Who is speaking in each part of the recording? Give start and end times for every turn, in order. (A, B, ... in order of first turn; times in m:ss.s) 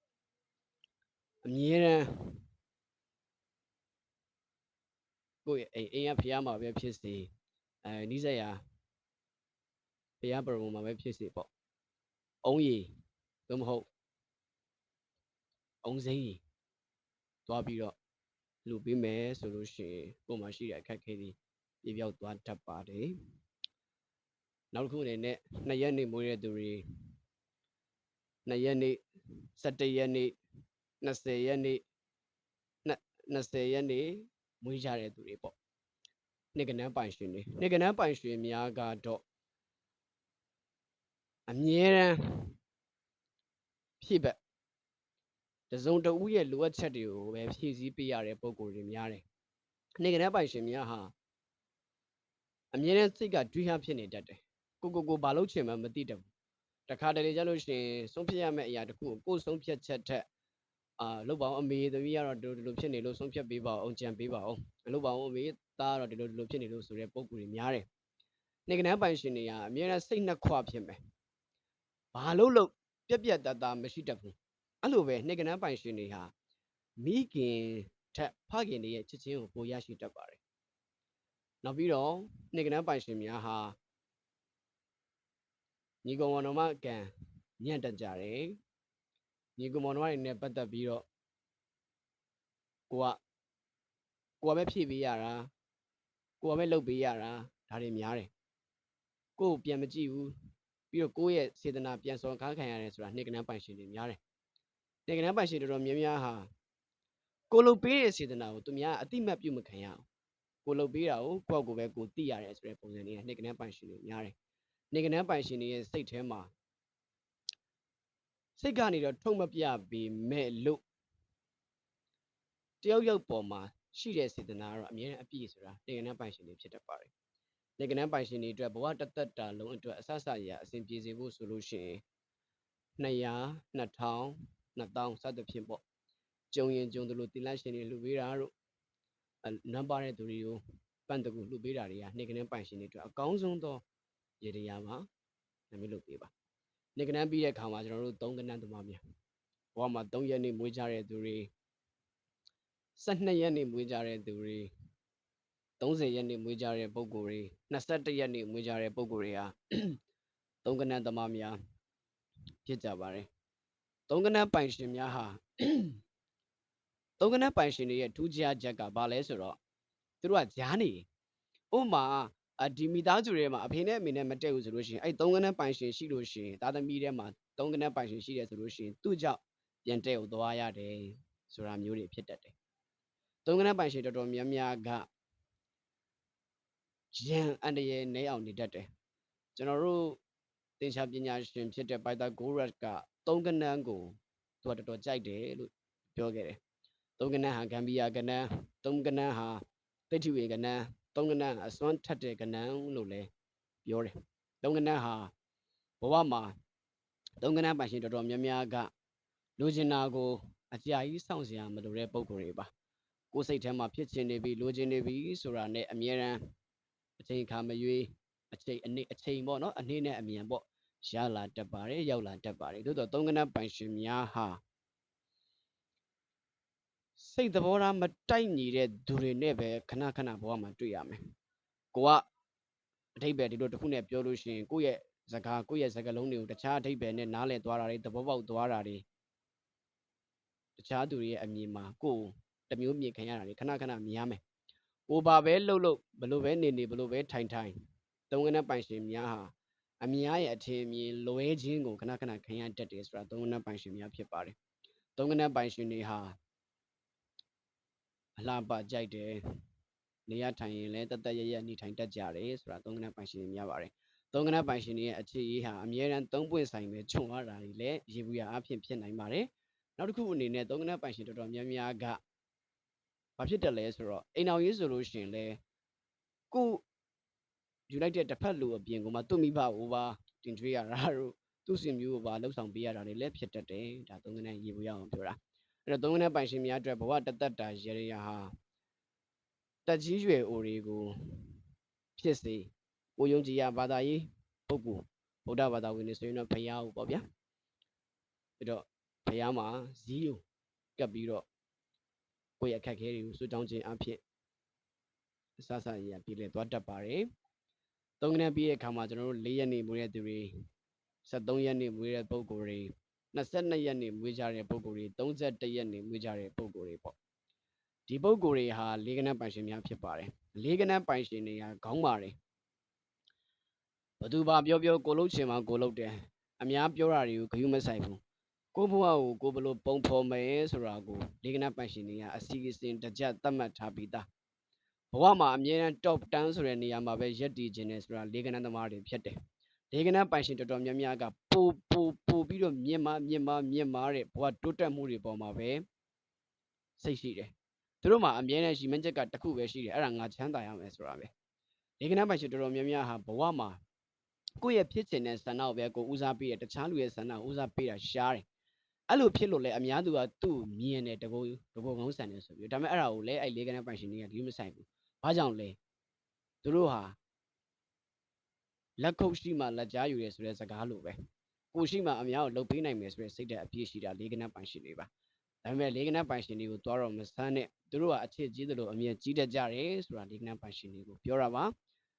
0:01.4-0:02.4 A
0:05.4-0:07.3 A
0:07.8-0:08.6 A
0:10.2-0:11.5 A
0:12.4-0:12.9 A
0:13.5-0:13.9 A
0:15.8-0:16.4 A
0:17.5-0:18.0 A
0:18.6-0:23.2 A
0:24.7-0:26.8 A
0:28.5-0:29.0 A
0:29.6-0:30.4 A
0:31.0-0:31.8 A
0:32.8-0:35.5 A
0:36.6-0:39.2 A
0:41.5-0:42.5 A
0:44.0-0:44.4 A
0:45.7-0:49.2 A
0:50.0-0:51.1 A
0:52.7-0:56.3 A
0:56.9-1:00.2 A
1:01.0-1:07.8 A
1:08.7-1:11.0 A
1:12.1-1:16.3 A
1:17.0-1:20.4 A
1:21.6-1:23.8 A
1:26.0-1:28.6 A
1:29.6-1:31.0 A
1:32.9-1:33.2 A
1:34.4-1:35.5 A
1:36.4-1:38.3 A
1:39.4-1:40.3 A
1:40.9-1:44.2 A
1:45.1-1:46.5 A
1:47.5-1:50.0 A
1:50.6-1:54.3 A
1:54.9-1:56.5 A
1:58.6-2:00.8 A
2:02.8-2:07.1 A
2:07.8-2:12.0 A
2:13.0-2:15.8 A
2:16.5-2:18.5 A
2:19.4-2:23.8 A
2:24.4-2:25.0 A
2:25.7-2:26.3 A
2:27.0-2:29.0 A
2:29.8-2:31.5 A
2:33.0-2:34.7 A
2:35.8-2:40.0 A
2:40.6-2:41.6 A
2:42.6-2:43.3 A
2:44.1-2:46.0 A
2:47.2-2:49.6 A
2:50.2-2:51.1 A
2:51.7-3:02.5 A
3:03.5-3:05.1 A
3:07.1-3:08.9 A
3:09.6-3:10.2 A
3:10.8-3:16.6 A
3:17.2-3:23.3 A
3:23.8-3:25.3 A
3:26.0-3:26.5 A
3:27.4-3:28.9 A
3:29.6-3:32.7 A
3:33.3-3:36.4 A
3:37.2-3:44.6 A
3:47.2-3:51.2 A
3:51.9-3:52.2 A
3:53.2-3:59.0 A
4:00.8-4:04.4 A
4:05.1-4:07.8 A
4:08.3-4:14.6 A
4:15.2-4:16.4 A
4:18.4-4:19.4 A
4:20.3-4:32.2 A
4:33.4-4:35.6 A
4:36.5-4:36.8 A
4:37.9-4:48.5 A
4:49.9-4:51.6 A
4:52.2-4:57.2 A
4:58.6-5:00.4 A
5:01.0-5:01.4 A
5:02.6-5:04.2 A
5:05.6-5:07.3 A
5:08.2-5:10.5 A
5:11.3-5:17.2 A
5:18.1-5:22.3 A
5:24.2-5:28.2 A
5:28.8-5:34.3 A
5:35.1-5:39.4 A
5:39.9-5:45.8 A
5:47.0-5:51.3 A
5:52.0-5:53.8 A
5:54.6-5:58.4 A
5:59.1-6:05.8 A
6:06.6-6:07.2 A
6:09.0-6:11.2 A
6:11.7-6:15.1 A
6:15.6-6:21.7 A